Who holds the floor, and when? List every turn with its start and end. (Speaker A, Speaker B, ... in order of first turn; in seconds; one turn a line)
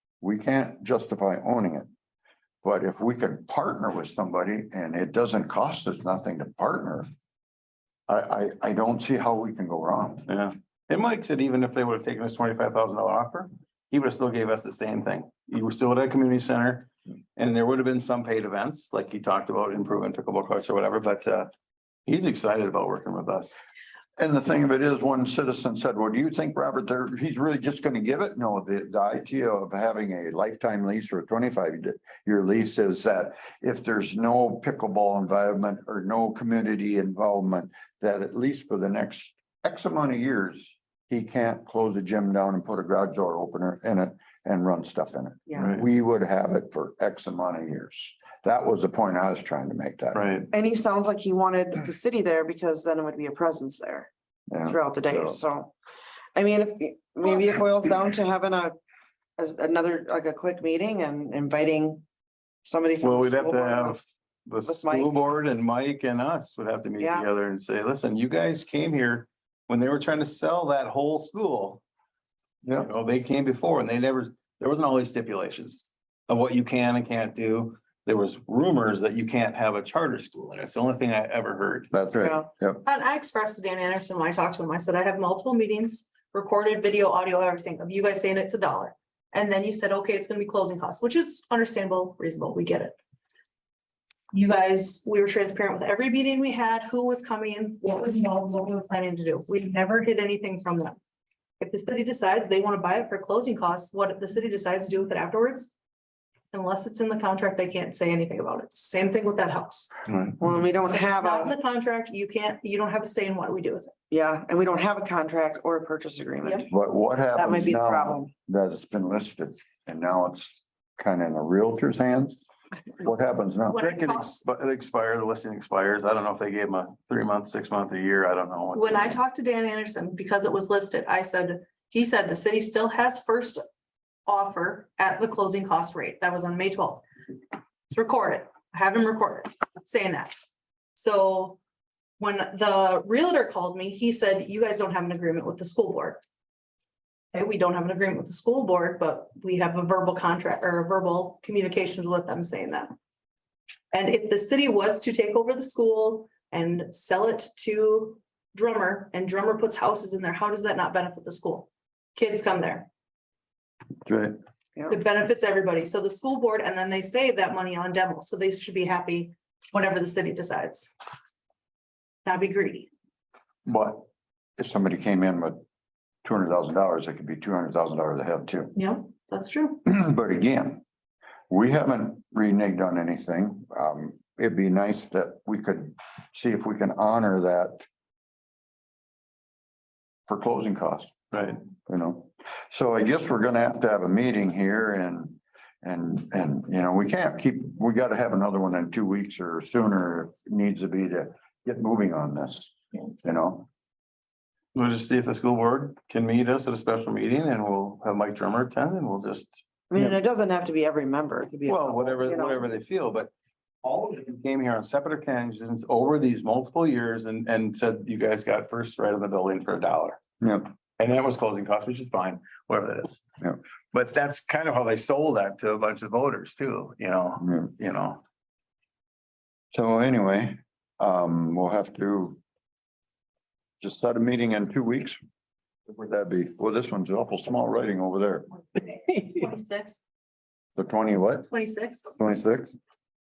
Speaker A: 0.2-1.9
Speaker A: 2.6-7.1
Speaker A: 8.1-10.3
Speaker B: 10.3-21.5
Speaker B: 22.1-23.5
Speaker A: 24.2-50.3
Speaker B: 50.1-50.5
Speaker C: 50.5-54.1
Speaker A: 54.5-55.4
Speaker C: 54.6-55.7
Speaker C: 56.3-58.8
Speaker C: 59.4-62.0
Speaker C: 62.6-64.0
Speaker B: 63.0-71.8
Speaker C: 64.6-65.1
Speaker C: 67.0-67.3
Speaker A: 72.6-72.9
Speaker B: 72.8-81.9
Speaker A: 81.9-82.8
Speaker C: 82.2-82.5
Speaker D: 82.8-92.9
Speaker D: 94.3-101.0
Speaker D: 101.6-105.7
Speaker D: 106.5-109.9
Speaker B: 110.1-110.4
Speaker C: 110.4-111.5
Speaker D: 110.9-113.9
Speaker C: 114.1-116.7
Speaker A: 116.7-122.4
Speaker C: 117.3-118.3
Speaker A: 123.0-123.9
Speaker D: 123.7-124.4
Speaker B: 123.8-129.2
Speaker D: 128.7-133.6
Speaker D: 134.3-137.0
Speaker D: 137.9-140.3
Speaker D: 140.9-141.6
Speaker D: 142.2-146.2
Speaker D: 147.3-152.9
Speaker D: 153.9-162.9
Speaker A: 164.0-164.4
Speaker D: 164.9-170.9
Speaker D: 172.2-172.9
Speaker A: 173.7-174.1
Speaker A: 174.6-175.6
Speaker A: 176.2-178.7
Speaker D: 178.7-179.8
Speaker A: 179.8-180.8
Speaker A: 181.5-187.9
Speaker A: 190.3-191.2
Speaker B: 191.3-191.6
Speaker A: 191.8-203.7
Speaker B: 204.7-209.6
Speaker C: 209.9-212.6
Speaker B: 211.6-213.3
Speaker B: 213.8-220.2
Speaker A: 220.4-220.7
Speaker B: 221.0-223.2
Speaker B: 223.9-228.2
Speaker A: 227.4-227.7
Speaker A: 229.7-232.4
Speaker A: 233.8-235.2
Speaker A: 235.9-238.5
Speaker D: 238.8-240.0
Speaker A: 240.8-241.5
Speaker D: 241.5-242.1
Speaker A: 242.2-242.8